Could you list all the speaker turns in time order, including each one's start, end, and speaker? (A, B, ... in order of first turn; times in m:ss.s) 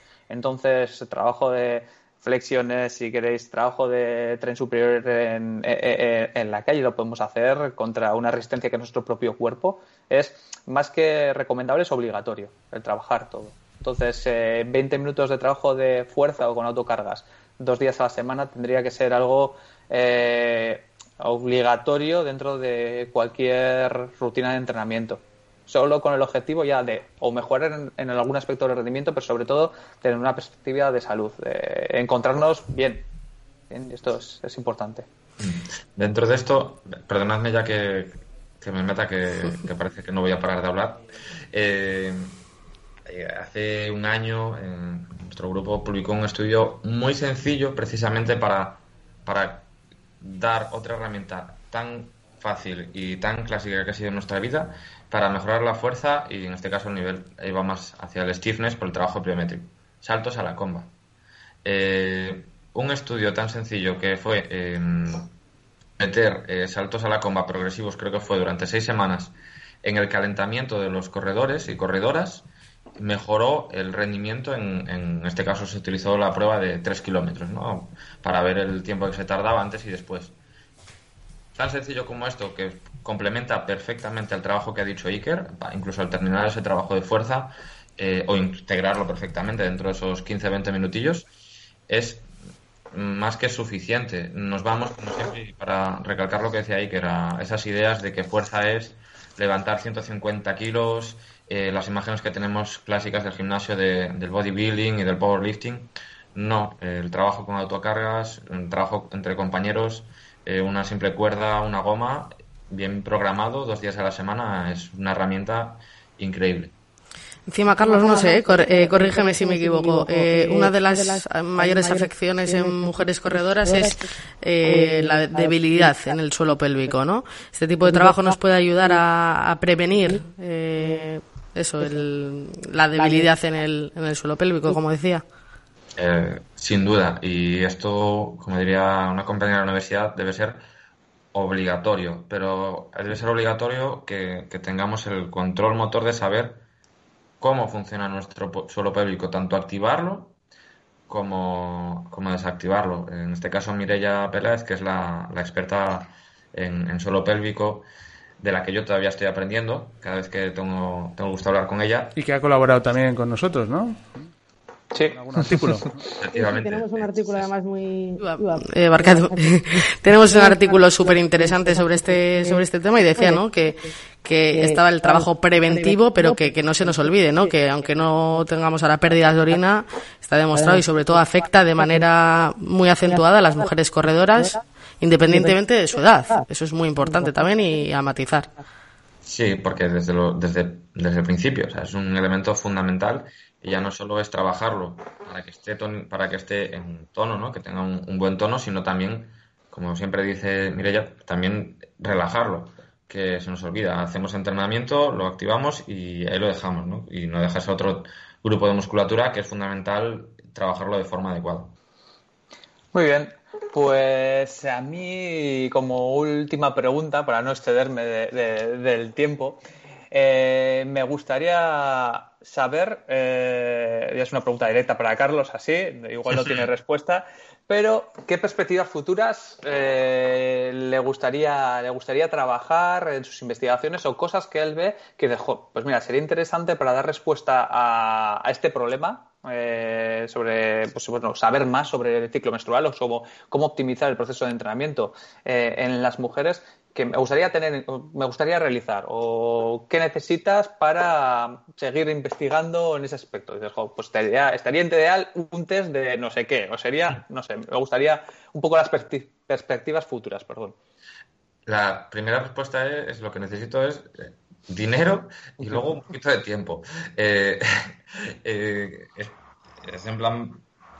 0:00.3-0:33.0 A
0:33.7-0:35.1 A
0:35.4-0:42.4 B
0:43.0-0:49.7 B
0:50.2-1:00.9 B
1:01.6-1:05.3 B
1:06.0-1:20.3 B
1:21.5-1:31.3 B
1:31.9-1:32.3 B
1:32.9-1:56.7 B
1:57.5-2:15.2 C
1:57.7-2:04.0 D
2:04.6-2:06.2 D
2:07.8-2:09.0 D
2:10.8-2:11.0 D
2:13.0-2:13.3 D
2:16.0-2:20.6 B
2:21.3-2:26.6 B
2:27.4-2:30.3 B
2:31.1-2:37.8 B
2:38.4-2:42.1 B
2:42.1-2:44.3 E
2:45.1-2:45.9 E
2:46.2-2:47.5 B
2:46.3-2:53.5 D
2:48.2-3:08.5 C
2:54.5-2:57.5 D
3:00.5-3:02.0 D
3:03.0-3:03.7 D
3:04.4-3:04.6 D
3:05.2-3:05.6 D
3:07.0-3:07.6 D
3:09.2-3:31.7 B
3:32.9-4:20.7 A
4:21.6-4:30.6 B